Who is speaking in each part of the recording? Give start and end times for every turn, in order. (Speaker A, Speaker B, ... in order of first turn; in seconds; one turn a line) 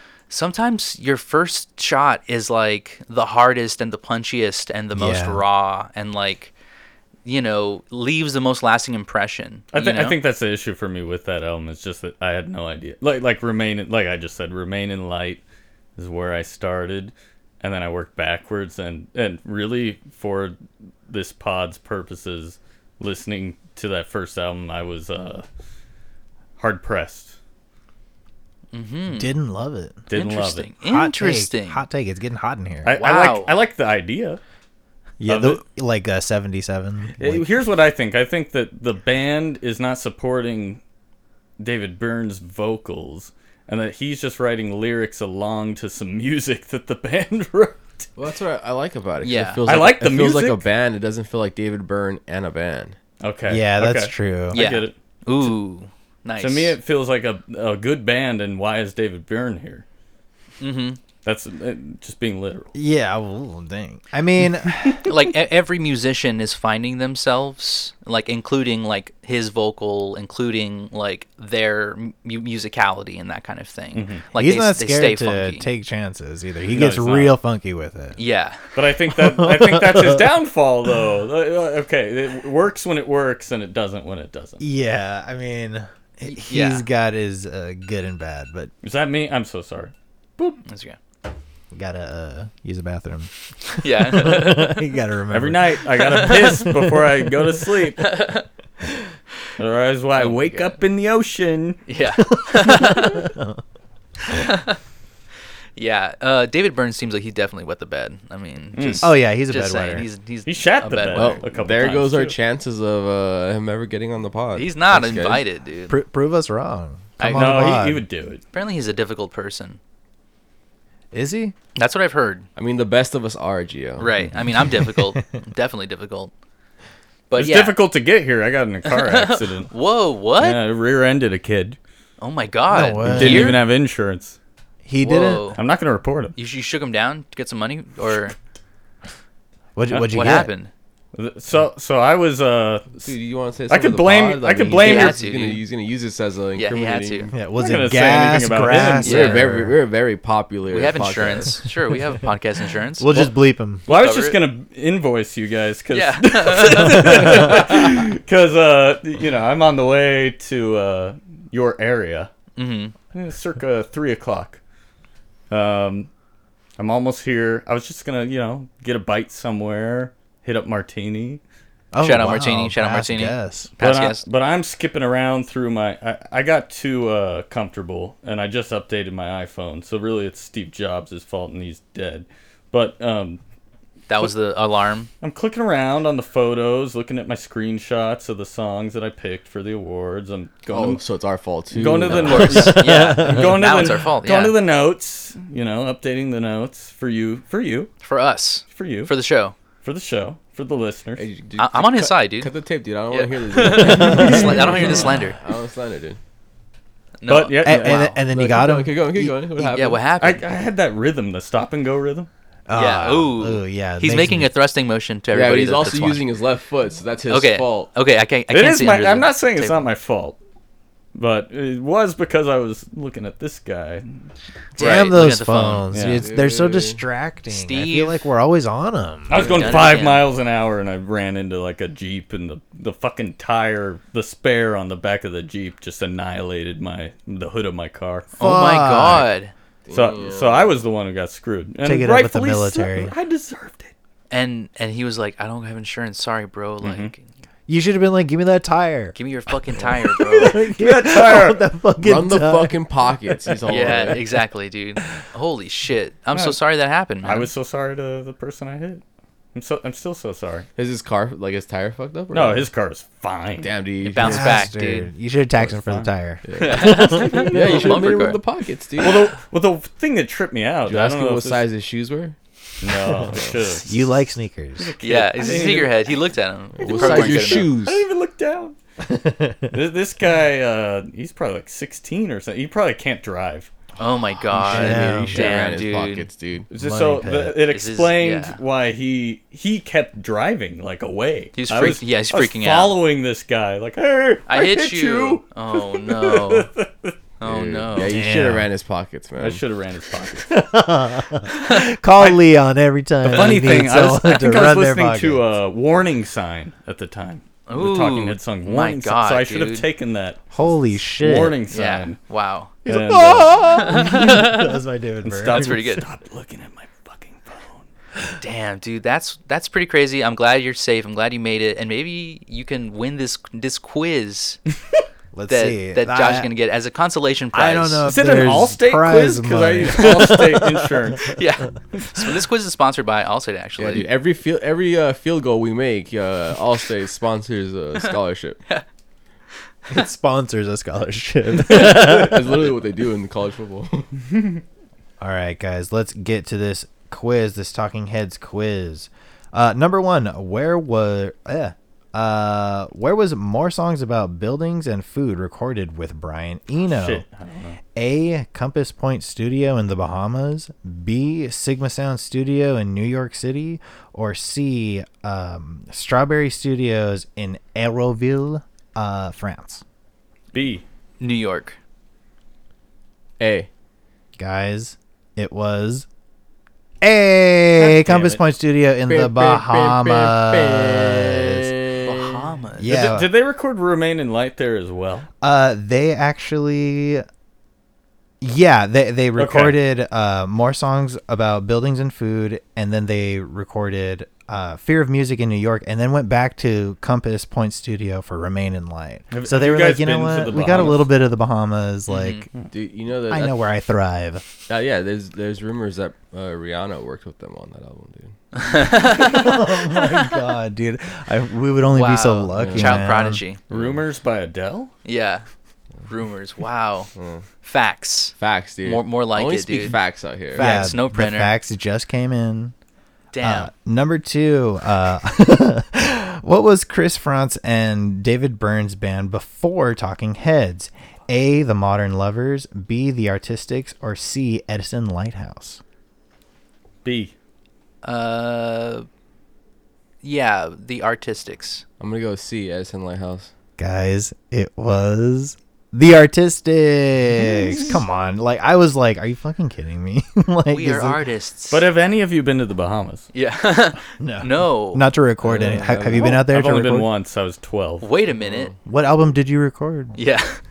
Speaker A: 0.3-6.5
Speaker B: 4.9-5.4
Speaker A: 7.2-10.2
Speaker C: 9.7-15.4
Speaker C: 16.0-20.6
Speaker C: 21.1-25.5
Speaker C: 26.6-27.4
Speaker A: 28.7-29.3
Speaker B: 29.1-30.1
Speaker C: 30.1-30.7
Speaker A: 30.1-31.8
Speaker B: 30.8-33.0
Speaker C: 32.8-34.4
Speaker A: 33.0-33.5
Speaker B: 35.2-37.5
Speaker C: 35.2-35.6
Speaker C: 37.2-40.8
Speaker C: 41.6-48.1
Speaker D: 48.2-53.0
Speaker A: 49.2-49.6
Speaker C: 49.6-50.6
Speaker C: 53.2-55.5
Speaker B: 53.5-54.6
Speaker A: 54.5-56.8
Speaker C: 56.4-59.9
Speaker A: 60.6-61.0
Speaker C: 61.2-62.7
Speaker B: 62.8-65.1
Speaker A: 65.0-75.7
Speaker C: 73.9-74.2
Speaker B: 74.3-78.2
Speaker C: 76.7-77.4
Speaker A: 78.2-78.6
Speaker C: 78.8-84.6
Speaker B: 79.1-80.2
Speaker B: 84.6-88.7
Speaker A: 86.2-86.9
Speaker C: 88.8-90.6
Speaker A: 90.6-91.0
Speaker B: 91.7-93.3
Speaker A: 93.7-94.8
Speaker B: 93.8-95.8
Speaker C: 95.3-98.2
Speaker A: 96.0-96.8
Speaker A: 98.0-98.4
Speaker C: 99.6-101.8
Speaker A: 100.2-100.8
Speaker A: 101.9-103.3
Speaker B: 102.4-103.6
Speaker A: 104.2-104.8
Speaker A: 105.8-111.4
Speaker C: 108.8-109.1
Speaker B: 109.0-110.1
Speaker C: 110.5-112.4
Speaker D: 111.1-115.4
Speaker A: 114.5-116.0
Speaker B: 115.9-118.0
Speaker A: 117.2-117.7
Speaker C: 117.2-118.4
Speaker A: 118.5-119.8
Speaker B: 121.1-121.5
Speaker A: 121.8-122.5
Speaker D: 122.6-124.1
Speaker A: 124.0-126.3
Speaker B: 124.7-125.2
Speaker A: 127.3-127.8
Speaker C: 127.4-129.7
Speaker A: 128.9-130.6
Speaker C: 130.4-131.8
Speaker A: 132.2-133.6
Speaker B: 132.7-133.6
Speaker C: 133.0-134.4
Speaker B: 134.8-135.5
Speaker A: 135.0-135.6
Speaker C: 135.6-136.3
Speaker A: 136.4-138.4
Speaker B: 139.8-140.5
Speaker A: 140.1-140.7
Speaker C: 141.1-143.1
Speaker D: 143.0-147.3
Speaker C: 143.7-145.2
Speaker A: 144.7-145.6
Speaker A: 146.6-147.3
Speaker B: 147.3-149.8
Speaker C: 147.6-149.2
Speaker A: 149.0-149.4
Speaker D: 149.1-151.6
Speaker A: 150.7-153.2
Speaker B: 153.0-153.8
Speaker A: 153.9-154.4
Speaker C: 153.9-162.3
Speaker A: 155.9-157.7
Speaker A: 162.6-162.9
Speaker C: 163.1-164.6
Speaker C: 165.5-166.1
Speaker C: 166.8-171.4
Speaker B: 171.9-173.7
Speaker A: 172.0-174.2
Speaker C: 173.8-183.4
Speaker A: 184.1-185.1
Speaker C: 185.2-191.0
Speaker D: 190.7-192.8
Speaker C: 191.7-197.9
Speaker A: 192.2-194.6
Speaker B: 192.5-193.5
Speaker A: 198.0-199.6
Speaker C: 198.7-199.1
Speaker C: 199.8-201.2
Speaker D: 201.2-206.2
Speaker A: 201.6-202.5
Speaker A: 203.1-205.4
Speaker B: 204.0-204.3
Speaker C: 204.1-205.0
Speaker A: 207.2-208.2
Speaker C: 207.3-208.1
Speaker B: 207.6-209.9
Speaker D: 207.7-210.0
Speaker A: 209.7-210.5
Speaker C: 210.2-212.3
Speaker B: 212.7-214.5
Speaker A: 212.7-216.2
Speaker D: 215.3-217.9
Speaker A: 217.3-219.8
Speaker C: 218.5-220.4
Speaker C: 221.1-224.2
Speaker A: 224.8-225.8
Speaker B: 224.8-229.8
Speaker C: 225.9-226.2
Speaker D: 226.1-227.0
Speaker A: 227.5-228.2
Speaker C: 229.3-238.3
Speaker A: 229.3-230.2
Speaker A: 238.4-239.5
Speaker B: 238.4-239.3
Speaker D: 239.8-240.8
Speaker C: 239.9-243.9
Speaker B: 241.8-243.1
Speaker A: 244.3-247.2
Speaker C: 246.8-247.1
Speaker B: 247.7-249.2
Speaker A: 249.1-250.6
Speaker B: 249.8-254.0
Speaker C: 250.7-251.7
Speaker D: 252.0-254.2
Speaker A: 253.7-257.5
Speaker C: 257.2-259.0
Speaker C: 259.5-260.7
Speaker D: 260.8-262.7
Speaker C: 262.3-263.7
Speaker D: 263.6-264.7
Speaker A: 264.0-265.1
Speaker B: 264.2-267.6
Speaker C: 265.6-266.1
Speaker D: 266.4-269.3
Speaker A: 266.6-268.4
Speaker C: 267.5-268.0
Speaker C: 269.0-271.6
Speaker D: 270.9-272.4
Speaker C: 272.8-274.0
Speaker D: 273.2-273.6
Speaker B: 273.8-274.9
Speaker C: 274.8-276.0
Speaker A: 275.0-277.8
Speaker D: 276.8-278.0
Speaker C: 276.8-278.8
Speaker B: 279.0-279.7
Speaker C: 279.7-283.7
Speaker A: 284.0-286.3
Speaker B: 284.6-285.6
Speaker D: 284.7-286.7
Speaker C: 286.7-297.2
Speaker B: 286.8-287.6
Speaker A: 287.7-288.6
Speaker A: 291.5-292.9
Speaker A: 294.5-296.7
Speaker A: 297.4-298.2
Speaker D: 297.4-299.6
Speaker B: 298.1-298.7
Speaker C: 299.4-300.6
Speaker B: 300.5-305.4
Speaker C: 303.2-310.4
Speaker A: 307.7-309.9
Speaker B: 310.5-311.6
Speaker C: 311.0-312.2
Speaker A: 311.7-312.7
Speaker C: 312.9-314.5
Speaker B: 312.9-315.8
Speaker A: 313.8-314.6
Speaker C: 315.2-317.9
Speaker A: 315.6-316.0
Speaker A: 318.4-324.6
Speaker B: 325.3-326.5
Speaker A: 325.5-328.0
Speaker B: 327.5-331.2
Speaker C: 328.1-331.4
Speaker A: 331.3-334.1
Speaker D: 333.8-338.6
Speaker B: 339.9-342.7
Speaker D: 341.5-344.1
Speaker B: 345.2-357.2
Speaker C: 356.8-357.8
Speaker B: 357.9-369.8
Speaker C: 370.5-370.8
Speaker A: 371.2-371.8
Speaker D: 373.4-373.7
Speaker B: 374.4-376.1
Speaker B: 377.0-381.7
Speaker C: 377.8-378.4
Speaker D: 379.1-382.4
Speaker A: 382.0-382.9
Speaker B: 382.8-383.3
Speaker C: 382.8-385.3
Speaker B: 385.4-387.2
Speaker B: 388.4-402.5
Speaker C: 389.4-389.8
Speaker C: 399.3-401.1
Speaker A: 402.1-402.5
Speaker D: 402.7-403.6
Speaker B: 403.3-404.4
Speaker D: 404.7-408.4
Speaker A: 408.5-410.0
Speaker B: 409.1-413.4
Speaker A: 411.9-413.6
Speaker D: 412.6-413.1
Speaker D: 413.7-414.0
Speaker C: 413.7-414.9
Speaker A: 415.0-415.5
Speaker A: 416.1-417.1
Speaker D: 417.1-417.5
Speaker A: 417.6-421.5
Speaker D: 418.4-420.7
Speaker B: 420.5-422.7
Speaker A: 423.3-423.7
Speaker B: 423.4-435.8
Speaker C: 437.0-437.3
Speaker A: 438.0-439.1
Speaker A: 440.2-441.8
Speaker D: 442.0-443.5
Speaker B: 443.8-451.2
Speaker A: 450.7-451.8
Speaker C: 451.7-453.3
Speaker A: 453.3-455.0
Speaker B: 454.2-457.1
Speaker D: 455.4-456.4
Speaker C: 456.2-458.1
Speaker A: 458.0-458.7
Speaker D: 458.3-458.8
Speaker B: 458.8-460.2
Speaker A: 460.1-460.6